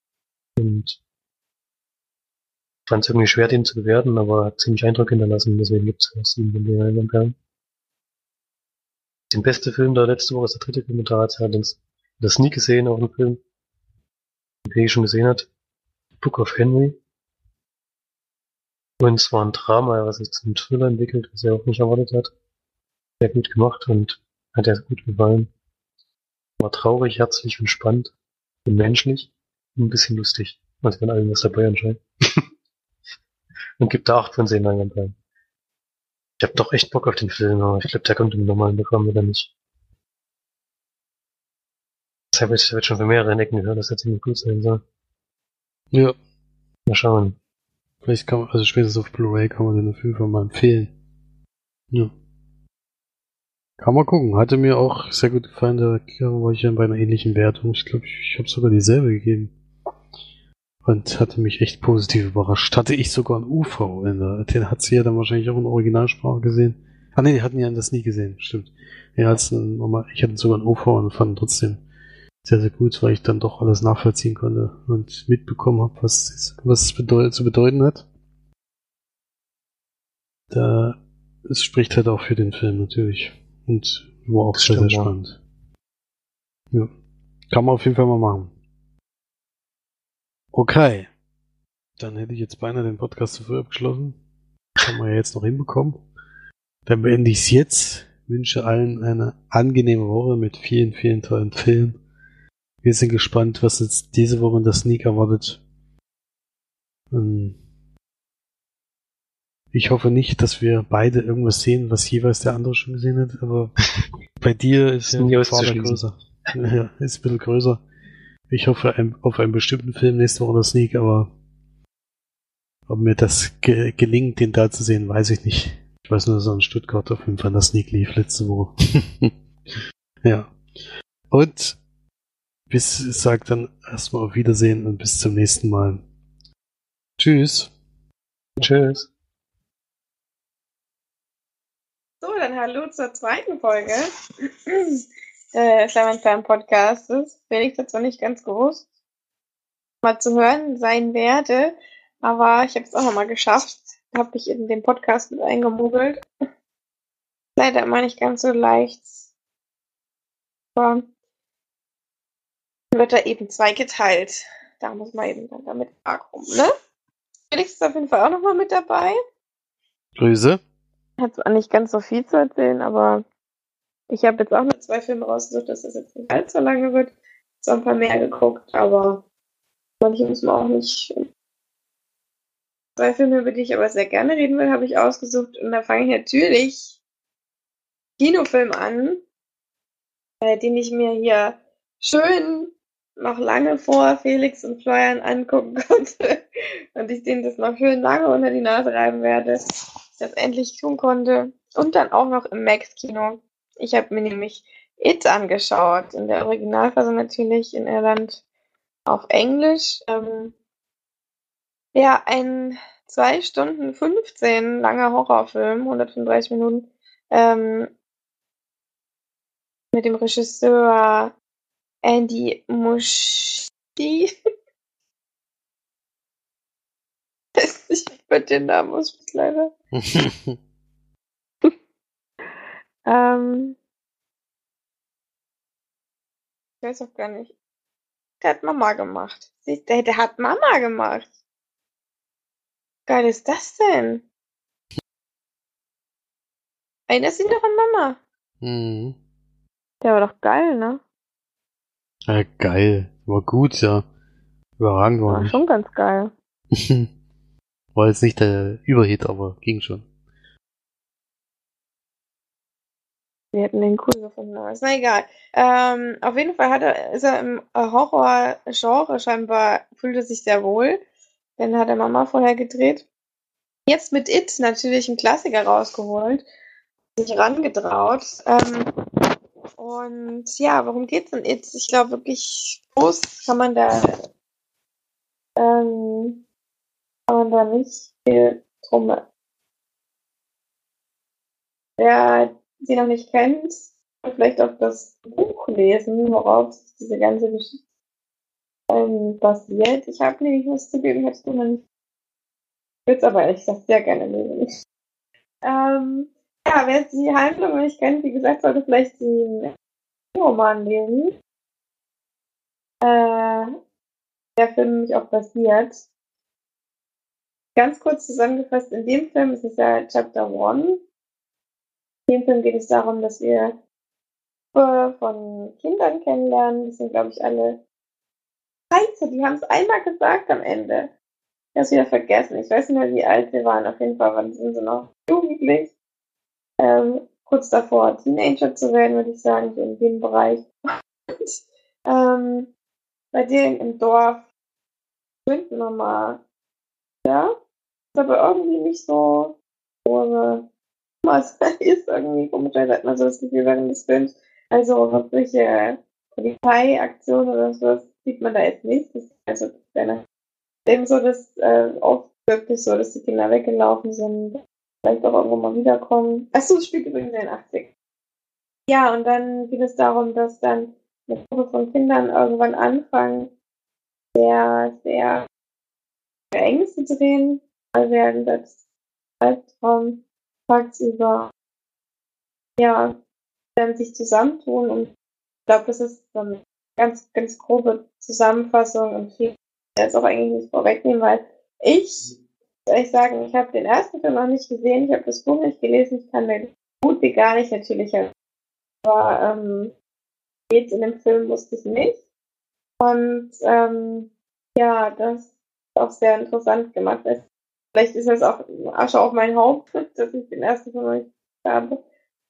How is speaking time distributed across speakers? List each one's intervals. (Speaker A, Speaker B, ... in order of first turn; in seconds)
Speaker A: 0.6-1.0, 2.9-7.3, 9.3-13.4, 14.7-15.5, 16.2-17.0, 19.0-22.3, 23.2-25.5, 26.6-28.1, 28.7-32.4, 33.8-35.1, 36.4-39.5, 42.3-44.8, 46.9-47.4, 84.5-85.1, 115.1-116.0, 138.6-139.1
Speaker B: 48.0-50.9, 53.8-59.5, 60.9-71.8, 72.5-78.0, 80.5-85.4, 87.5-88.5, 90.5-91.1, 92.0-94.2, 94.8-96.0, 96.9-102.0, 102.8-105.6, 107.1-107.6, 109.7-113.7, 114.4-117.8, 118.5-121.3, 122.9-130.5, 131.3-131.8, 132.7-136.0, 137.2-137.7, 170.2-170.6, 229.9-230.6, 248.6-249.2, 252.3-254.1, 254.8-255.6, 256.7-257.1, 257.9-260.1
Speaker C: 142.2-144.1, 144.7-148.8, 150.0-156.2, 157.6-159.2, 160.8-161.1, 162.9-166.7, 167.5-169.2, 171.2-173.2, 174.1-179.2, 180.0-181.2, 183.0-187.0, 188.2-189.2, 190.4-196.4, 196.9-208.4, 209.1-210.5, 211.9-217.9, 219.9-221.3, 222.0-224.3, 227.6-229.7, 233.1-233.8, 236.8-237.5, 238.4-241.3, 243.1-244.2, 247.1-248.2, 250.0-251.0, 255.3-256.3, 263.5-271.0, 271.6-273.1, 273.9-276.4, 277.2-278.9, 279.8-284.2, 285.6-286.4, 287.3-289.2, 292.0-297.8, 298.9-301.8, 303.1-304.7, 305.6-309.7, 310.4-311.4, 313.0-313.7, 314.6-316.0, 317.8-321.0, 322.3-323.8, 324.7-327.8, 328.9-331.1, 331.7-335.9, 336.8-340.7, 342.1-342.7, 343.3-344.4, 345.4-346.4, 347.2-347.5, 348.1-350.7, 351.2-360.2, 360.9-367.9, 368.9-373.5, 374.4-375.4, 376.5-378.7, 379.4-381.5, 382.8-383.1, 383.8-385.1, 385.7-398.3, 399.0-399.9, 400.7-402.2, 403.0-407.4, 407.9-412.0